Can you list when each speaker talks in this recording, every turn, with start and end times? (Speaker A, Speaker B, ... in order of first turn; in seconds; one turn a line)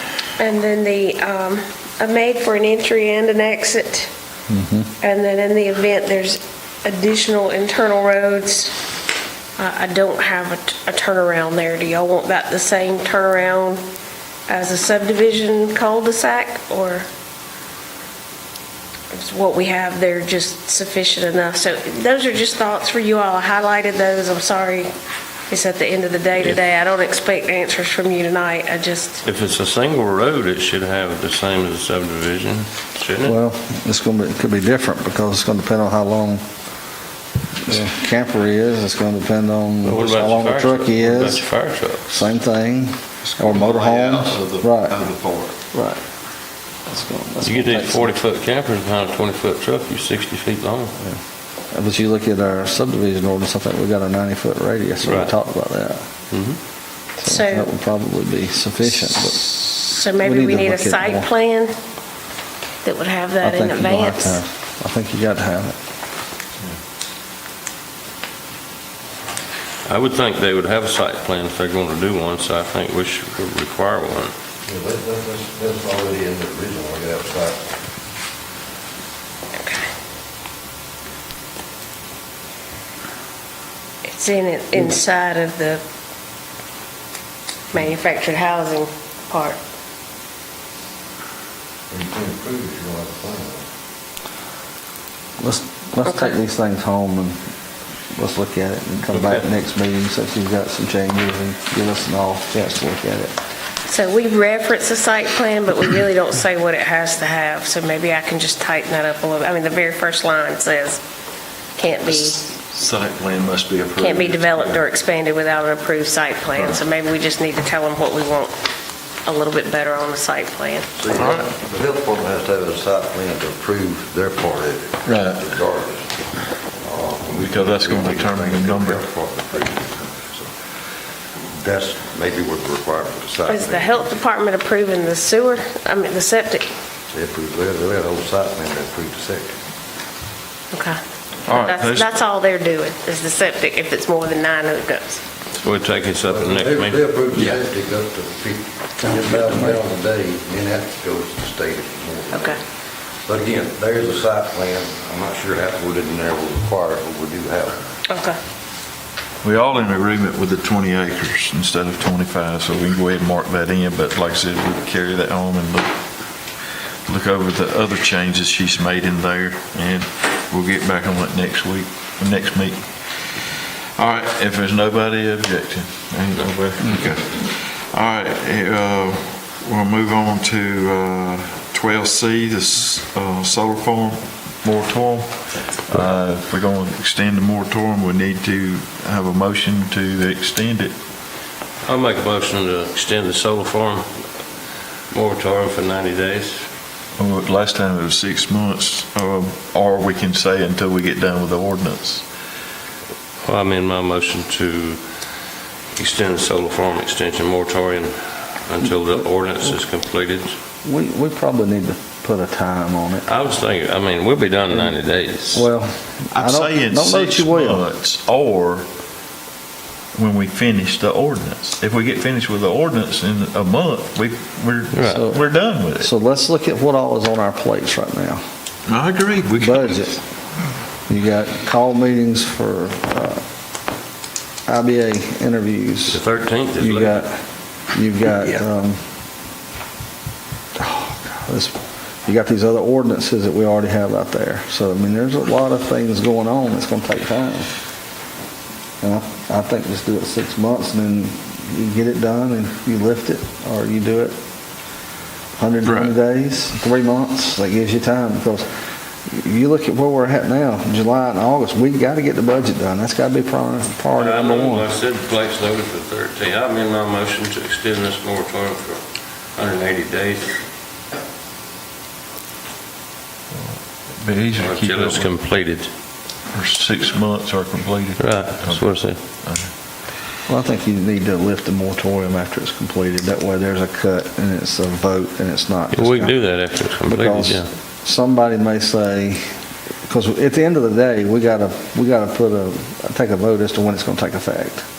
Speaker A: 0.4-4.1
Speaker B: 4.5-4.9
Speaker A: 5.0-8.7
Speaker A: 9.6-13.8
Speaker A: 14.5-17.1
Speaker A: 19.1-24.9
Speaker A: 25.5-29.2
Speaker C: 29.2-33.4
Speaker B: 33.2-36.4
Speaker B: 37.6-41.5
Speaker C: 39.8-42.3
Speaker B: 42.1-45.0
Speaker D: 43.2-45.6
Speaker B: 45.7-46.0
Speaker B: 46.9-48.1
Speaker C: 47.4-50.9
Speaker B: 51.7-56.0
Speaker C: 55.0-55.3
Speaker C: 56.3-56.6
Speaker B: 57.2-61.3
Speaker A: 57.2-57.7
Speaker A: 59.7-61.7
Speaker A: 62.8-64.4
Speaker B: 63.4-65.8
Speaker C: 69.9-74.3
Speaker E: 74.7-77.7
Speaker A: 84.1-85.8
Speaker A: 87.7-89.6
Speaker E: 91.9-93.7
Speaker B: 95.4-97.4
Speaker B: 98.2-103.3
Speaker A: 103.9-111.0
Speaker A: 111.8-112.4
Speaker D: 112.1-114.8
Speaker A: 114.0-118.5
Speaker D: 116.5-116.8
Speaker A: 119.2-120.9
Speaker E: 121.0-126.1
Speaker D: 121.2-121.5
Speaker D: 125.0-125.4
Speaker E: 126.8-130.5
Speaker D: 127.3-129.1
Speaker E: 131.5-134.1
Speaker A: 133.5-136.7
Speaker E: 137.1-139.5
Speaker A: 140.7-141.0
Speaker D: 141.5-142.2
Speaker A: 141.5-145.2
Speaker C: 145.5-147.0
Speaker E: 146.3-152.6
Speaker D: 147.3-147.6
Speaker B: 149.0-149.8
Speaker A: 152.3-152.6
Speaker E: 153.2-157.8
Speaker A: 158.1-158.4
Speaker D: 159.4-165.9
Speaker D: 167.1-172.9
Speaker D: 174.0-190.9
Speaker C: 191.8-194.1
Speaker C: 195.1-196.6
Speaker D: 197.2-202.2
Speaker C: 203.4-205.0
Speaker C: 206.0-210.5
Speaker B: 210.8-213.3
Speaker C: 213.3-215.7
Speaker B: 215.5-217.8
Speaker D: 216.3-218.9
Speaker D: 220.2-226.1
Speaker C: 224.9-225.3
Speaker B: 225.1-225.4
Speaker B: 226.0-228.4
Speaker D: 228.9-230.2
Speaker B: 229.6-230.2
Speaker B: 231.1-233.4
Speaker B: 234.7-236.2
Speaker C: 236.1-237.3
Speaker B: 236.8-237.4
Speaker B: 237.9-239.0
Speaker B: 240.8-241.7
Speaker B: 242.3-247.7
Speaker B: 249.0-254.4
Speaker B: 255.6-258.7
Speaker D: 255.8-256.1
Speaker B: 259.3-264.9
Speaker C: 264.1-269.0
Speaker C: 269.6-270.6
Speaker D: 273.6-275.3
Speaker C: 274.6-275.9
Speaker D: 276.5-279.7
Speaker C: 278.2-279.2
Speaker B: 280.5-286.4
Speaker C: 285.9-287.7
Speaker B: 287.1-289.4
Speaker B: 290.1-294.9